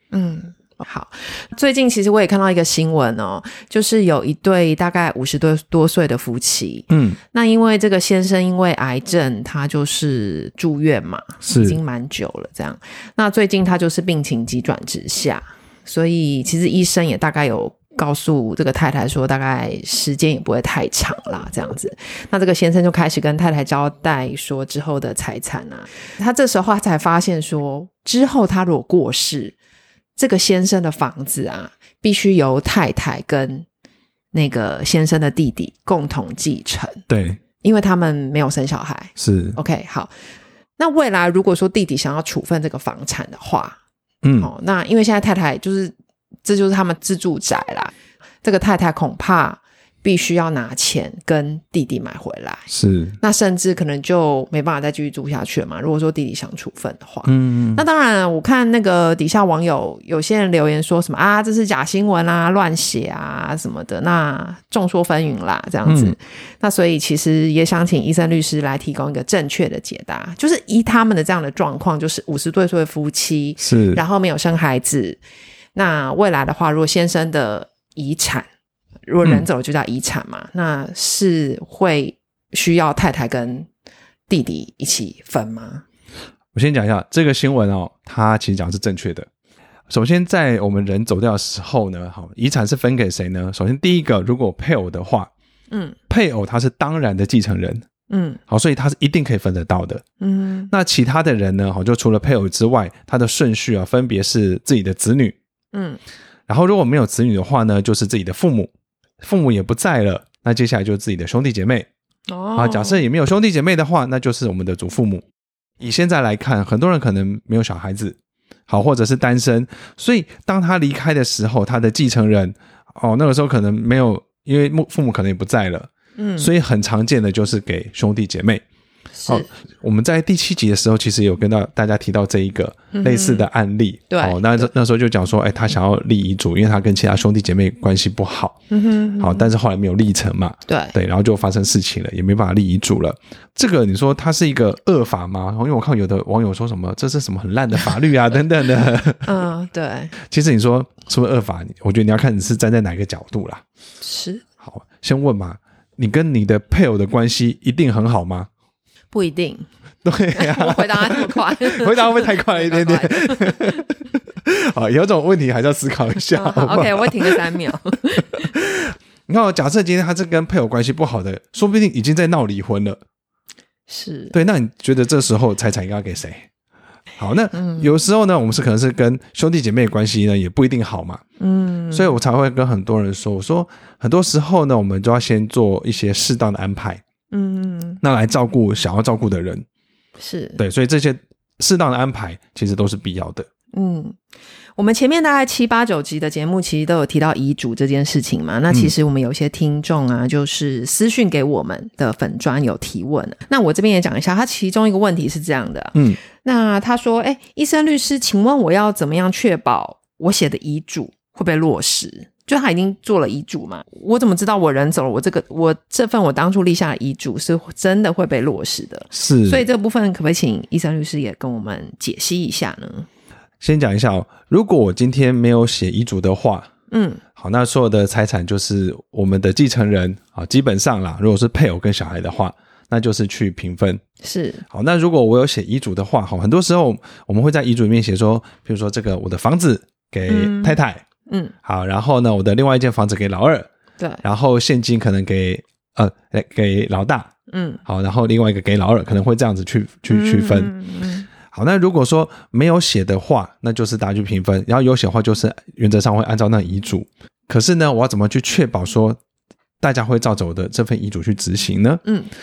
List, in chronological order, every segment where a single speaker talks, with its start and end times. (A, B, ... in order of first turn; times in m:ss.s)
0:00.1-0:29.6 A
0:06.9-0:07.2 B
0:11.4-0:11.8 B
0:30.2-0:33.7 A
0:34.3-0:37.0 A
0:37.1-0:37.4 B
0:37.6-0:40.1 A
0:39.2-0:39.6 B
0:40.8-0:43.8 A
0:44.2-0:44.5 B
0:44.4-0:45.9 A
0:46.4-0:52.7 A
0:52.7-0:53.2 B
0:53.2-1:15.2 A
0:57.3-0:57.8 B
1:05.9-1:06.2 B
1:13.6-1:14.0 B
1:15.8-1:18.5 A
1:19.1-1:23.7 A
1:24.3-1:25.8 A
1:26.5-1:29.3 B
1:29.9-1:35.3 B
1:35.7-1:36.0 A
1:36.1-1:37.8 B
1:38.1-1:38.4 A
1:38.5-1:40.0 B
1:40.2-1:40.7 A
1:40.7-1:45.4 B
1:45.7-1:46.0 A
1:46.5-1:48.7 B
1:49.2-1:51.9 B
1:52.3-1:53.0 A
1:52.6-1:55.2 B
1:55.8-1:58.2 B
1:58.7-2:08.6 B
2:06.2-2:06.5 A
2:09.2-2:09.5 A
2:09.3-2:18.6 B
2:12.9-2:13.5 A
2:14.1-2:14.7 A
2:18.7-2:19.5 A
2:19.2-2:29.3 B
2:20.7-2:21.0 A
2:29.2-2:30.1 A
2:30.2-2:33.6 B
2:34.0-2:34.4 A
2:34.6-2:38.5 B
2:39.1-2:39.7 A
2:40.0-2:47.5 B
2:40.4-2:43.8 A
2:46.3-2:48.5 A
2:48.5-2:53.0 B
2:53.9-2:54.4 A
2:54.3-2:56.5 B
2:57.2-3:01.2 B
2:57.5-2:57.9 A
3:01.4-3:02.2 A
3:01.9-3:07.0 B
3:07.3-3:08.0 A
3:08.0-3:09.6 B
3:10.2-3:10.6 A
3:10.6-3:13.5 B
3:13.7-3:14.2 A
3:14.8-3:43.1 A
3:39.1-3:39.6 B
3:43.6-3:46.7 B
3:46.9-3:47.2 A
3:47.4-3:54.0 B
3:54.2-3:54.6 A
3:54.7-4:01.0 B
4:00.3-4:01.5 A
4:01.6-4:03.7 B
4:04.2-4:07.3 B
4:07.5-4:07.8 A
4:07.9-4:10.7 B
4:10.1-4:11.3 A
4:11.5-4:19.2 B
4:19.8-4:22.0 B
4:22.0-4:22.3 A